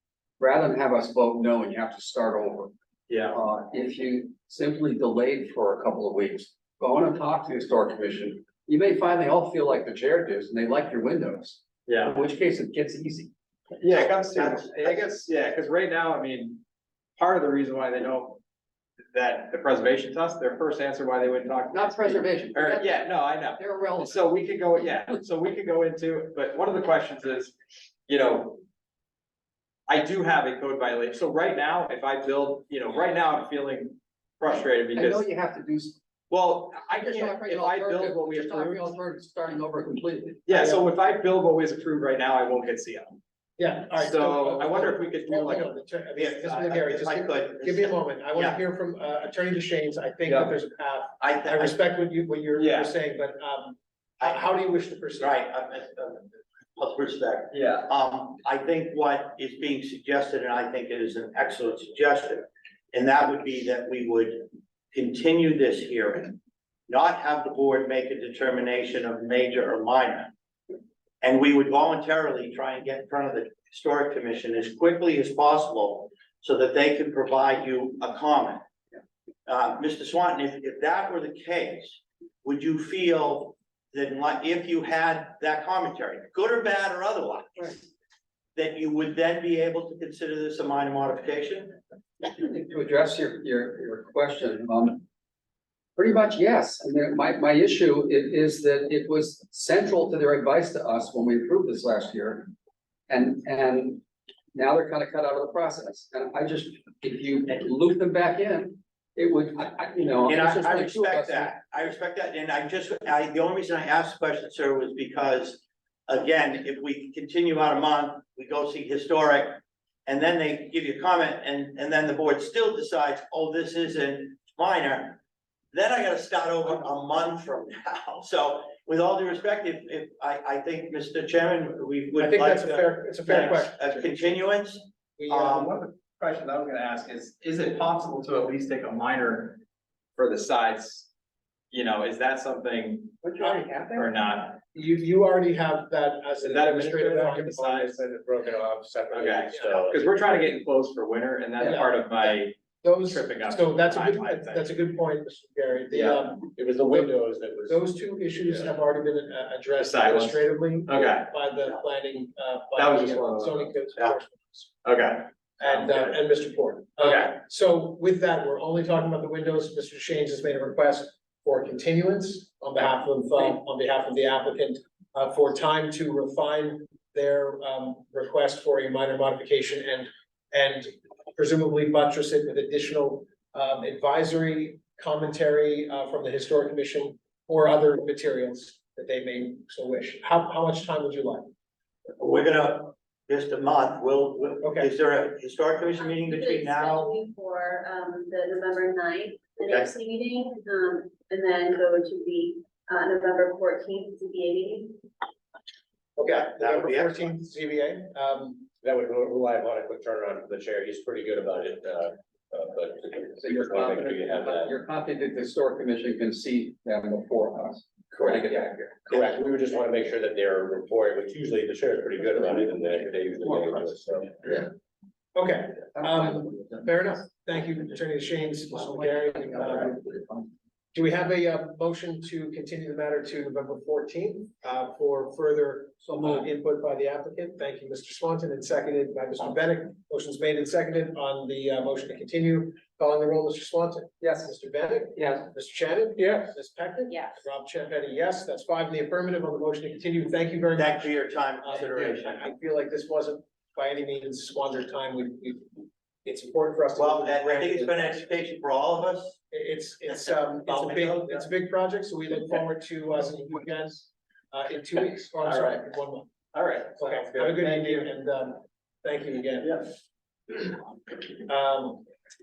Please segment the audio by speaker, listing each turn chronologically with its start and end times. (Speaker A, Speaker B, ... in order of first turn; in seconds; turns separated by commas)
Speaker A: 0.4-2.7, Speaker B: 3.1-3.4, Speaker A: 3.3-13.3, Speaker B: 11.9-12.2, Speaker B: 13.8-16.6, Speaker C: 14.0-15.2, Speaker B: 17.2-18.4, Speaker B: 19.1-27.6, Speaker A: 21.7-23.1, Speaker A: 23.6-25.1, Speaker B: 28.1-28.6, Speaker B: 29.9-35.3, Speaker A: 35.0-36.0, Speaker B: 36.3-39.0, Speaker A: 37.0-40.5, Speaker B: 40.5-43.2, Speaker D: 40.6-40.8, Speaker D: 43.6-55.4, Speaker B: 44.0-45.7, Speaker C: 46.2-48.6, Speaker B: 50.3-50.5, Speaker C: 51.2-51.8, Speaker B: 52.5-52.9, Speaker C: 55.2-66.4, Speaker B: 57.5-57.9, Speaker C: 66.9-70.3, Speaker C: 71.2-78.6, Speaker C: 79.5-87.9, Speaker C: 88.6-91.8, Speaker A: 92.2-95.1, Speaker A: 96.0-102.5, Speaker A: 103.1-111.5, Speaker C: 110.2-125.2, Speaker C: 125.7-135.7, Speaker D: 132.2-134.4, Speaker D: 135.2-135.6, Speaker B: 135.3-139.6, Speaker B: 140.2-141.1, Speaker B: 141.7-144.6, Speaker D: 143.4-144.1, Speaker D: 144.7-148.0, Speaker B: 146.4-148.0, Speaker E: 147.3-150.1, Speaker B: 149.1-154.7, Speaker D: 151.6-157.1, Speaker E: 155.9-157.9, Speaker D: 157.7-164.7, Speaker E: 158.4-158.7, Speaker B: 159.8-161.3, Speaker B: 162.8-163.7, Speaker B: 164.8-166.2, Speaker D: 165.6-191.5, Speaker B: 167.0-167.3, Speaker C: 192.2-197.1, Speaker D: 194.6-194.9, Speaker F: 195.9-205.0, Speaker D: 206.2-208.7, Speaker C: 206.2-207.3, Speaker E: 208.8-214.8, Speaker A: 213.4-218.6, Speaker E: 218.3-224.4, Speaker D: 225.3-230.2, Speaker A: 228.9-230.4, Speaker D: 230.9-251.1, Speaker A: 236.1-236.4, Speaker A: 244.2-244.5, Speaker A: 245.2-245.5, Speaker C: 250.8-252.5, Speaker D: 251.6-258.3, Speaker C: 257.0-259.4, Speaker D: 259.5-266.3, Speaker B: 260.7-261.4, Speaker B: 265.4-265.9, Speaker B: 266.5-268.1, Speaker D: 267.0-269.8, Speaker B: 269.6-269.9, Speaker D: 271.4-272.1